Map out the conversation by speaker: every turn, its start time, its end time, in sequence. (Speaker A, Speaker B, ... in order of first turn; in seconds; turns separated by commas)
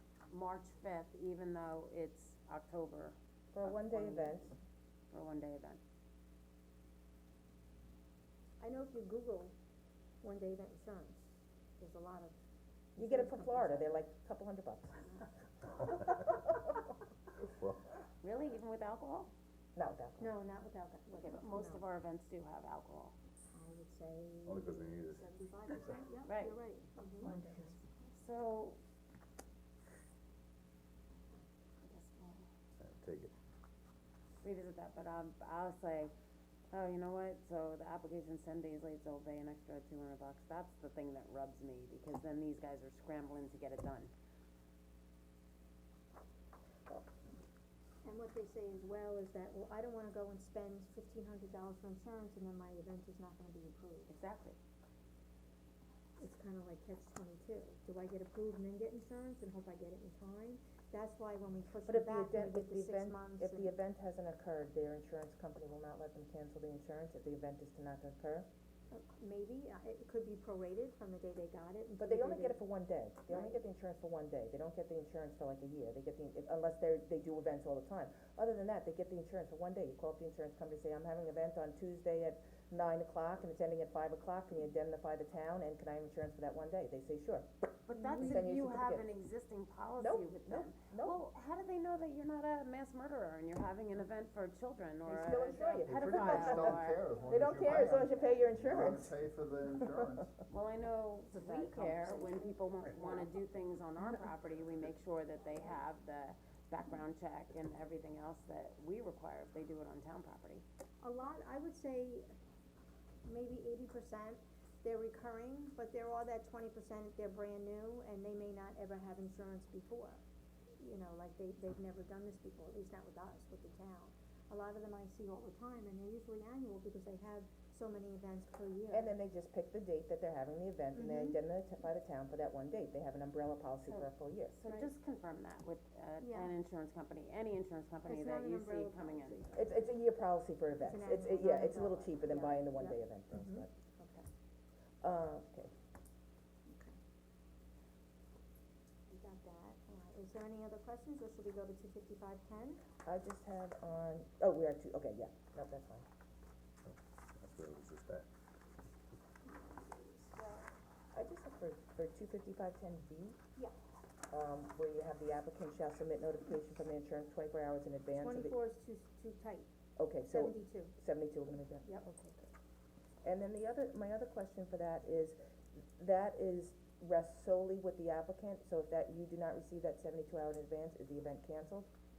Speaker A: 0.3-4.4, Speaker B: 3.5-4.5, Speaker A: 5.1-5.8, Speaker C: 8.6-9.5, Speaker C: 10.2-12.3, Speaker C: 13.0-13.9, Speaker B: 13.0-15.1, Speaker D: 17.4-17.8, Speaker A: 18.2-19.3, Speaker B: 19.8-20.3, Speaker C: 20.2-21.8, Speaker A: 21.1-23.2, Speaker C: 23.5-27.7, Speaker D: 24.5-25.3, Speaker A: 26.3-26.6, Speaker A: 28.1-28.8, Speaker A: 31.8-32.5, Speaker D: 32.8-33.3, Speaker A: 34.4-36.1, Speaker A: 36.7-44.1, Speaker C: 48.0-54.1, Speaker A: 54.1-54.6, Speaker C: 56.2-63.8, Speaker B: 61.9-68.5, Speaker C: 68.9-72.6, Speaker B: 72.0-87.5, Speaker A: 87.9-98.8, Speaker C: 87.9-88.4, Speaker B: 88.2-89.1, Speaker B: 90.0-91.2, Speaker B: 95.1-99.1, Speaker D: 95.8-100.3, Speaker A: 100.5-110.6, Speaker C: 101.3-102.4, Speaker C: 111.0-112.3, Speaker C: 113.2-120.2, Speaker C: 120.8-129.1, Speaker B: 128.9-134.6, Speaker C: 130.9-131.4, Speaker A: 133.9-139.5, Speaker C: 136.2-136.5, Speaker C: 138.1-139.8, Speaker B: 139.5-143.7, Speaker C: 140.8-144.3, Speaker B: 145.0-145.7, Speaker C: 146.7-146.9, Speaker C: 149.1-152.8, Speaker B: 153.1-156.1, Speaker D: 156.9-158.3, Speaker C: 159.5-160.7, Speaker B: 161.1-163.4, Speaker B: 164.3-168.6, Speaker C: 168.2-169.7, Speaker B: 170.0-171.9, Speaker C: 170.3-170.9, Speaker C: 171.8-172.5, Speaker B: 173.2-175.4, Speaker B: 176.0-181.9